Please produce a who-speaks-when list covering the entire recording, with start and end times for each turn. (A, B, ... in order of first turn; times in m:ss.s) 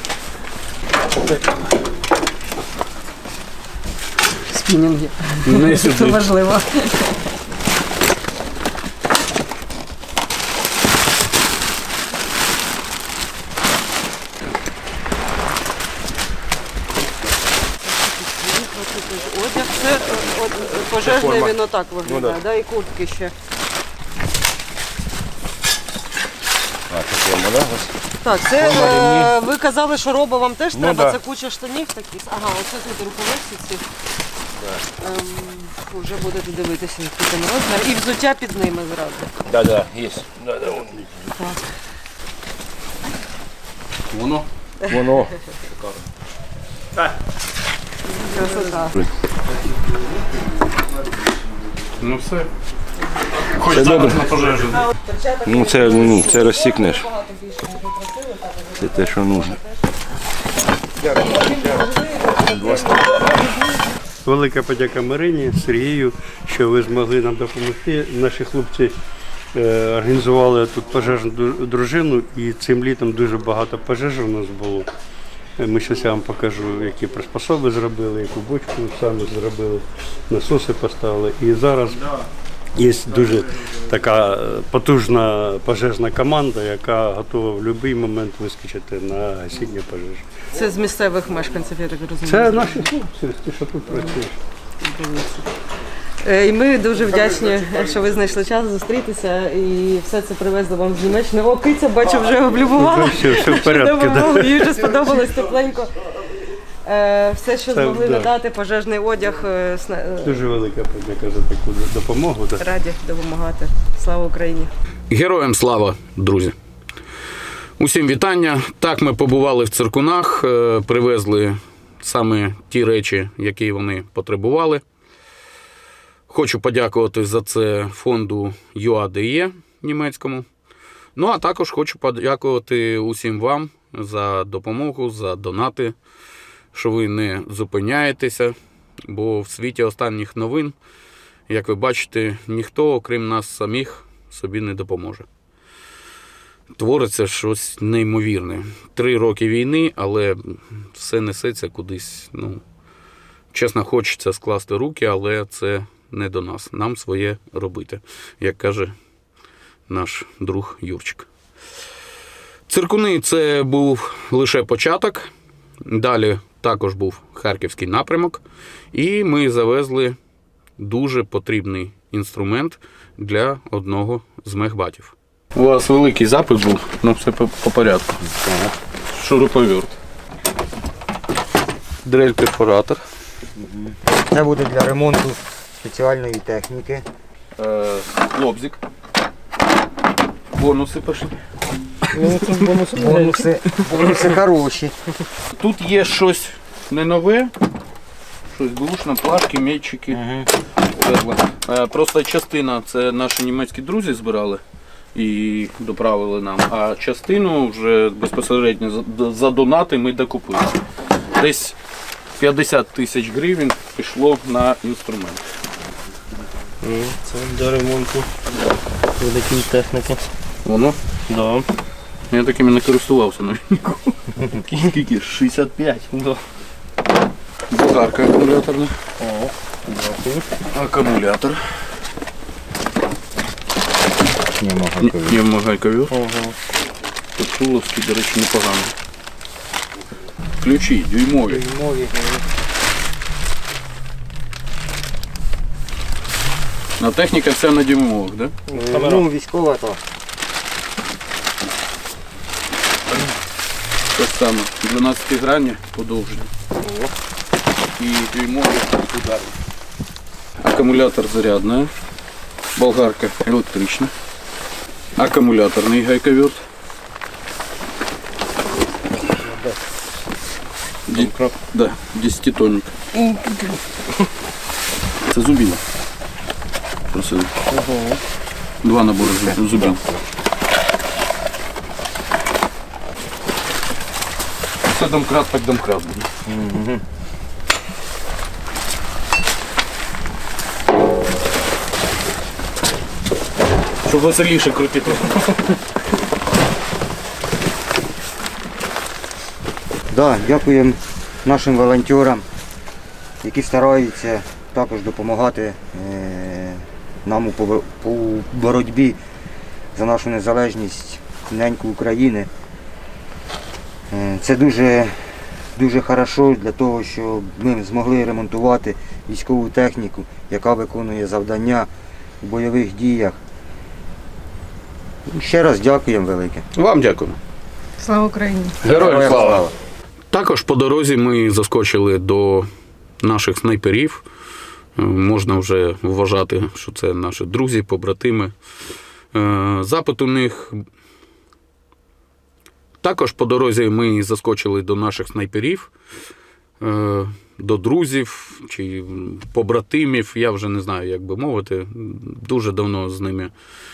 0:04.4-0:07.2 A
0:05.4-0:06.3 B
0:17.8-0:23.3 A
0:21.1-0:21.5 C
0:26.9-0:27.9 C
0:28.2-0:33.8 A
0:28.6-0:29.3 C
0:30.8-0:31.1 C
0:35.0-0:39.3 A
0:39.5-0:41.0 C
0:41.4-0:41.6 A
0:44.1-0:44.4 B
0:44.9-0:45.3 C
0:44.9-0:45.2 A
0:48.1-0:49.0 A
0:52.0-0:52.5 B
0:53.3-0:54.9 B
0:53.7-0:54.2 C
0:54.7-0:59.6 A
0:55.4-0:57.0 C
0:58.8-0:59.6 C
1:01.1-1:03.7 A
1:02.5-1:02.9 C
1:04.2-1:08.9 D
1:09.5-1:14.9 D
1:15.6-1:22.1 D
1:22.8-1:30.2 D
1:30.5-1:32.9 A
1:32.2-1:34.4 D
1:34.8-1:35.5 A
1:36.2-1:46.1 A
1:42.8-1:44.7 D
1:46.8-1:50.4 A
1:47.7-1:48.3 D
1:50.2-1:52.6 D
1:52.6-1:54.7 A
1:55.1-1:56.5 B
1:57.8-2:04.8 B
2:06.3-2:10.4 B
2:11.2-2:15.9 B
2:16.7-2:18.5 B
2:19.1-2:20.8 B
2:21.5-2:25.2 B
2:26.8-2:32.6 B
2:33.5-2:38.9 B
2:39.9-2:41.3 B
2:42.7-2:45.3 B
2:45.8-2:48.4 B
2:48.9-2:50.2 B
2:50.8-2:58.2 B
2:59.1-2:59.9 B
3:02.0-3:03.0 B
3:03.6-3:07.0 E
3:07.6-3:08.8 B
3:10.5-3:11.3 B
3:12.2-3:14.9 E
3:15.5-3:17.5 B
3:18.5-3:20.2 B
3:20.1-3:20.5 E
3:20.9-3:24.6 B
3:25.1-3:30.8 B
3:31.4-3:31.8 B
3:32.4-3:35.4 B
3:36.9-3:37.5 F
3:39.2-3:40.2 F
3:40.6-3:41.0 B
3:41.3-3:41.6 F
3:42.3-3:45.8 B
3:47.7-3:49.0 B
3:50.7-3:51.6 B
3:54.6-3:55.2 E
3:55.0-3:56.1 B
3:57.4-3:58.9 B
4:00.6-4:01.6 B
4:01.4-4:02.4 E
4:07.0-4:08.5 B
4:08.7-4:10.0 E
4:14.1-4:16.5 B
4:16.8-4:17.1 E
4:18.0-4:19.6 B
4:20.6-4:21.9 B
4:22.8-4:24.1 B
4:25.2-4:26.6 B
4:31.1-4:32.9 B
4:35.3-4:35.8 B
4:37.1-4:37.5 B
4:38.8-4:40.0 B
4:44.9-4:46.3 B
4:46.5-4:47.0 E
4:54.0-4:55.6 B
5:00.1-5:02.5 E
5:03.4-5:09.2 E
5:09.9-5:12.5 E
5:14.1-5:21.9 E
5:22.4-5:23.4 E
5:25.3-5:26.6 E
5:26.7-5:27.4 B
5:28.1-5:28.6 A
5:28.8-5:29.7 B
5:28.8-5:29.7 E
5:30.3-5:32.7 B
5:33.2-5:34.2 B
5:35.0-5:38.5 B
5:39.3-5:40.8 B
5:43.0-5:45.9 B
5:46.8-5:53.5 B